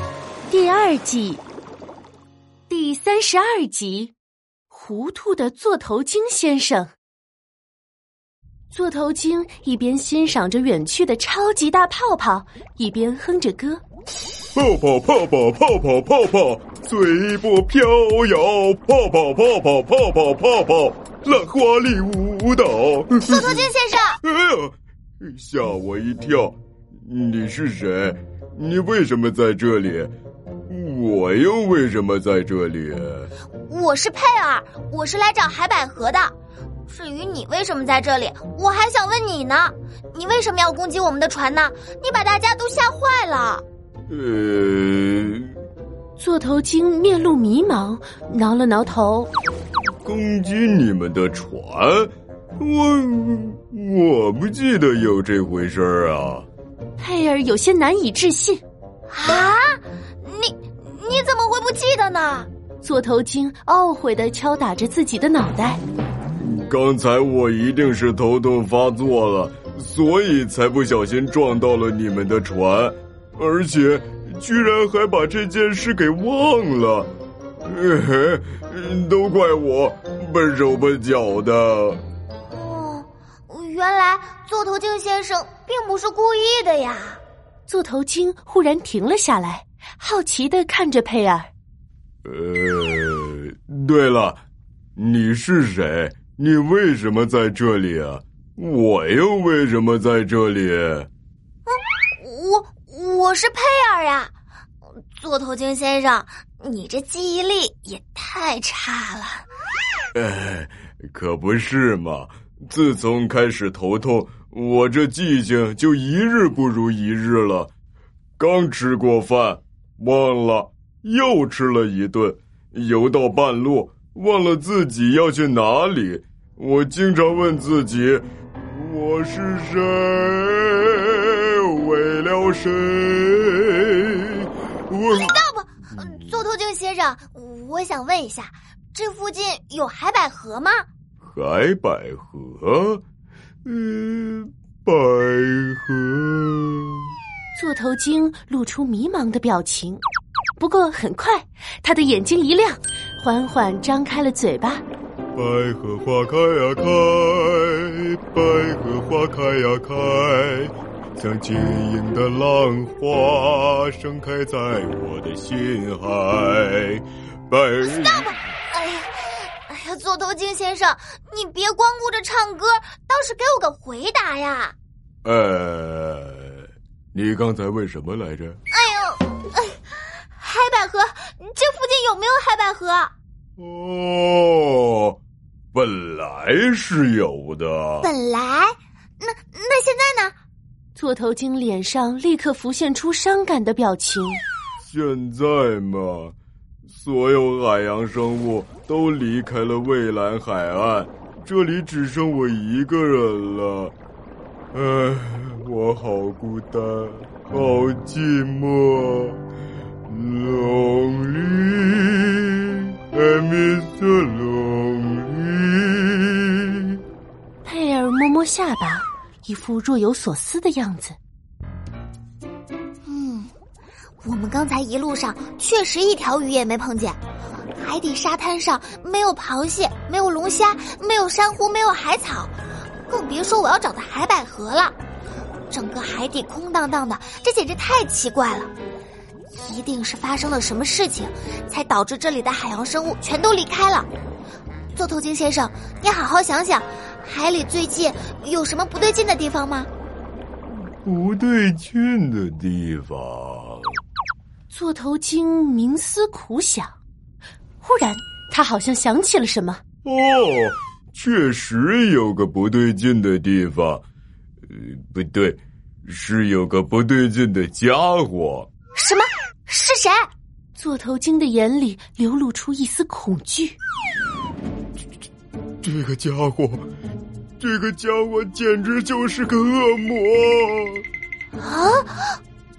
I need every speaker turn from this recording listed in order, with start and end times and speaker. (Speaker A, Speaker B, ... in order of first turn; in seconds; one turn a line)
Speaker A: 0.5-1.4
Speaker A: 2.7-4.1
Speaker A: 4.7-6.9
Speaker A: 8.7-13.8
Speaker B: 14.6-23.7
Speaker C: 23.2-24.2
Speaker B: 24.2-30.1
Speaker B: 30.7-33.3
Speaker C: 33.7-36.3
Speaker C: 36.9-43.6
Speaker B: 44.1-45.6
Speaker A: 46.2-49.3
Speaker B: 50.0-56.5
Speaker A: 57.0-58.6
Speaker C: 59.1-62.5
Speaker A: 62.8-65.8
Speaker B: 66.4-77.1
Speaker B: 77.6-82.0
Speaker C: 82.5-87.2
Speaker A: 87.7-91.5
Speaker B: 92.2-94.4
Speaker B: 95.0-101.1
Speaker C: 101.7-104.3
Speaker C: 105.2-109.4
Speaker B: 110.2-117.7
Speaker B: 118.4-135.4
Speaker C: 135.1-140.9
Speaker B: 141.2-143.0
Speaker B: 143.7-147.1
Speaker A: 147.6-150.0
Speaker A: 150.6-154.8
Speaker B: 155.3-168.4
Speaker C: 167.8-174.8
Speaker B: 175.2-178.6
Speaker C: 178.7-179.8
Speaker C: 180.4-183.1
Speaker B: 183.6-185.2
Speaker B: 185.7-188.1
Speaker C: 188.0-190.3
Speaker A: 191.0-194.4
Speaker B: 194.8-196.3
Speaker B: 196.9-203.9
Speaker B: 204.7-209.4
Speaker B: 210.1-217.0
Speaker A: 217.6-221.2
Speaker C: 223.1-223.5
Speaker C: 224.2-227.2
Speaker C: 227.8-232.6
Speaker C: 233.1-235.0
Speaker C: 235.7-238.7
Speaker C: 239.5-244.1
Speaker C: 244.9-249.9
Speaker B: 250.8-254.0
Speaker A: 254.7-256.9
Speaker A: 257.8-259.8
Speaker B: 260.0-264.0
Speaker B: 264.6-268.7
Speaker C: 268.9-270.3
Speaker A: 270.8-273.8
Speaker B: 275.8-276.9
Speaker B: 277.6-281.1
Speaker C: 281.6-282.3